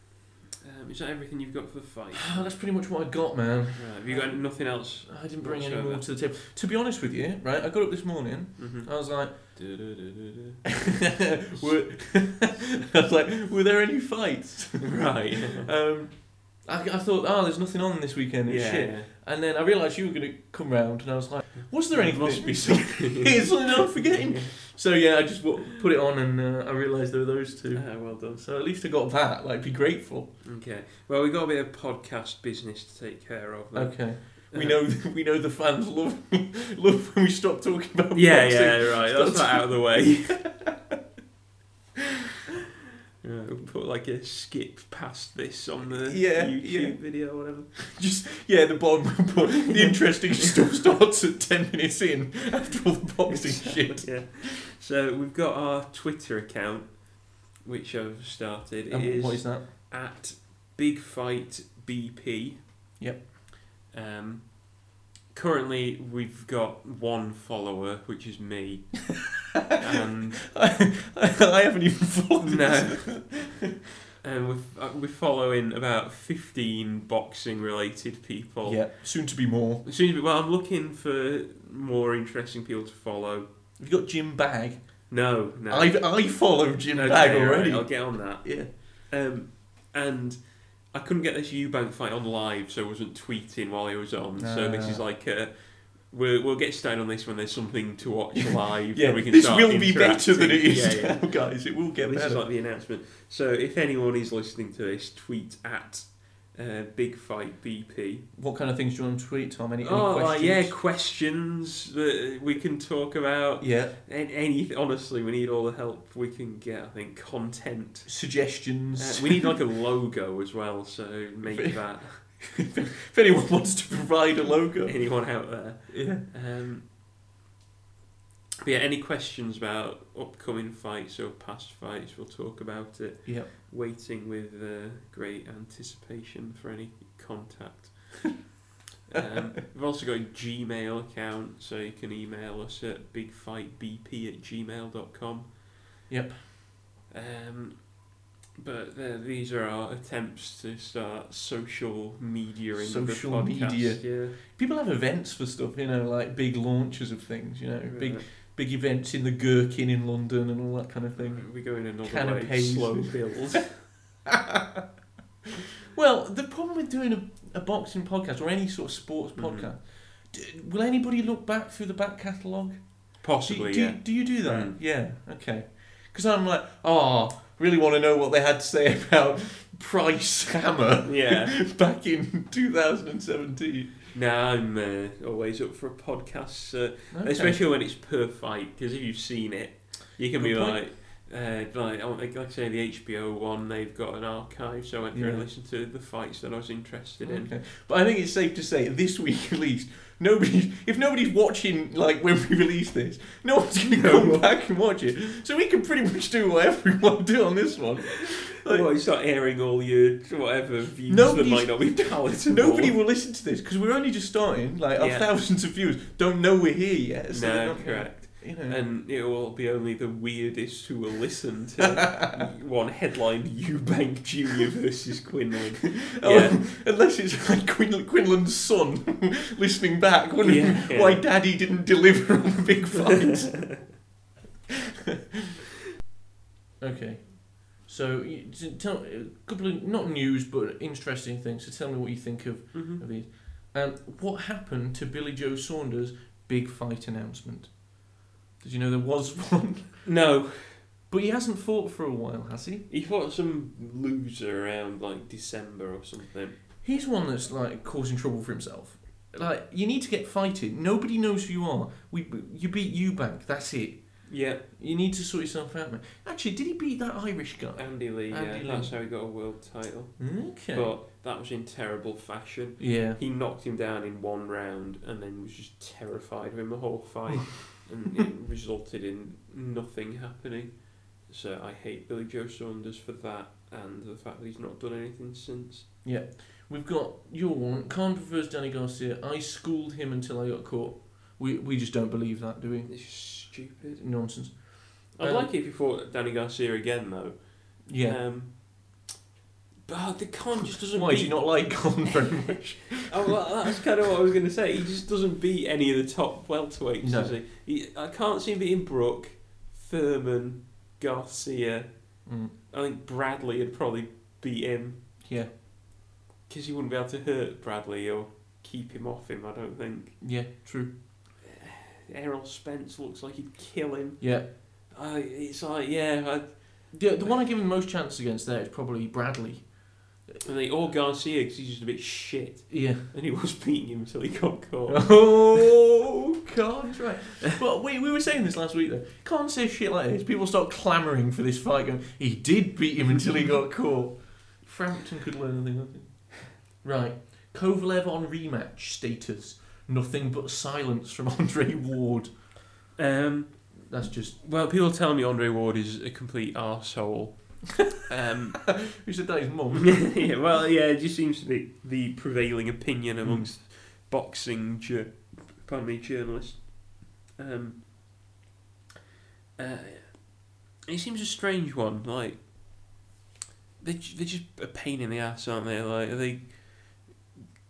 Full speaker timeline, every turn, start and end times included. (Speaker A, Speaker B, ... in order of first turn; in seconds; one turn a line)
Speaker A: 0.6-2.6
Speaker B: 2.1-9.6
Speaker A: 3.8-6.0
Speaker A: 8.6-10.6
Speaker B: 10.8-30.3
Speaker A: 11.5-12.4
Speaker A: 14.8-15.7
Speaker A: 18.5-19.1
Speaker A: 21.7-24.6
Speaker A: 27.7-28.4
Speaker A: 30.4-34.8
Speaker B: 33.8-41.0
Speaker A: 38.1-40.4
Speaker A: 43.2-47.8
Speaker B: 46.0-47.0
Speaker B: 47.8-54.5
Speaker A: 53.3-62.7
Speaker B: 58.9-59.7
Speaker B: 63.0-63.3
Speaker A: 63.9-70.5
Speaker B: 69.5-73.7
Speaker A: 72.4-73.4
Speaker A: 74.2-78.9
Speaker B: 78.6-79.8
Speaker A: 79.8-83.5
Speaker B: 83.8-85.1
Speaker A: 85.1-86.2
Speaker B: 85.7-88.7
Speaker A: 86.9-108.3
Speaker B: 94.4-95.0
Speaker B: 98.5-102.5
Speaker B: 108.3-110.8
Speaker A: 109.8-118.2
Speaker B: 113.6-114.0
Speaker B: 118.1-119.5
Speaker A: 118.9-122.2
Speaker B: 121.5-126.2
Speaker A: 124.8-126.9
Speaker A: 128.6-138.4
Speaker B: 133.2-133.5
Speaker A: 139.1-145.6
Speaker B: 139.1-139.5
Speaker B: 146.1-146.5
Speaker A: 147.1-154.4
Speaker B: 152.8-163.6
Speaker A: 157.9-158.3
Speaker A: 161.2-163.8
Speaker B: 164.3-164.8
Speaker B: 165.8-184.1
Speaker A: 169.4-169.7
Speaker A: 173.2-174.8
Speaker A: 181.0-181.6
Speaker A: 184.1-197.5
Speaker B: 187.1-187.6
Speaker B: 190.4-190.9
Speaker B: 195.1-195.5
Speaker B: 197.2-208.9
Speaker A: 203.8-204.5
Speaker A: 208.2-213.0
Speaker B: 211.1-218.8
Speaker A: 215.0-215.3
Speaker A: 217.3-226.6
Speaker B: 221.8-222.4
Speaker B: 226.2-234.0
Speaker A: 230.4-231.3
Speaker B: 236.8-247.9
Speaker A: 242.7-243.0
Speaker B: 248.6-250.1
Speaker A: 250.0-250.9
Speaker B: 251.1-252.9
Speaker A: 252.9-256.6
Speaker B: 256.8-269.0
Speaker A: 264.3-264.6
Speaker A: 267.8-285.9
Speaker B: 270.2-270.9
Speaker B: 272.8-273.2
Speaker B: 286.0-293.0
Speaker A: 292.9-294.0
Speaker B: 294.0-295.5
Speaker A: 295.2-299.0
Speaker B: 297.9-298.2
Speaker A: 299.9-302.0
Speaker B: 300.7-303.5
Speaker A: 302.9-315.2
Speaker B: 307.0-307.4
Speaker B: 312.3-312.5
Speaker B: 315.2-315.5
Speaker A: 316.5-320.2
Speaker B: 320.2-321.0
Speaker A: 321.4-327.0
Speaker B: 324.2-324.5
Speaker B: 326.9-329.8
Speaker A: 330.4-335.7
Speaker B: 332.7-333.0
Speaker B: 334.9-352.3
Speaker A: 353.0-353.8
Speaker B: 353.9-354.4
Speaker A: 354.4-358.8
Speaker B: 358.6-360.4
Speaker A: 359.7-367.8
Speaker B: 363.2-363.5
Speaker A: 369.6-372.5
Speaker A: 373.8-377.1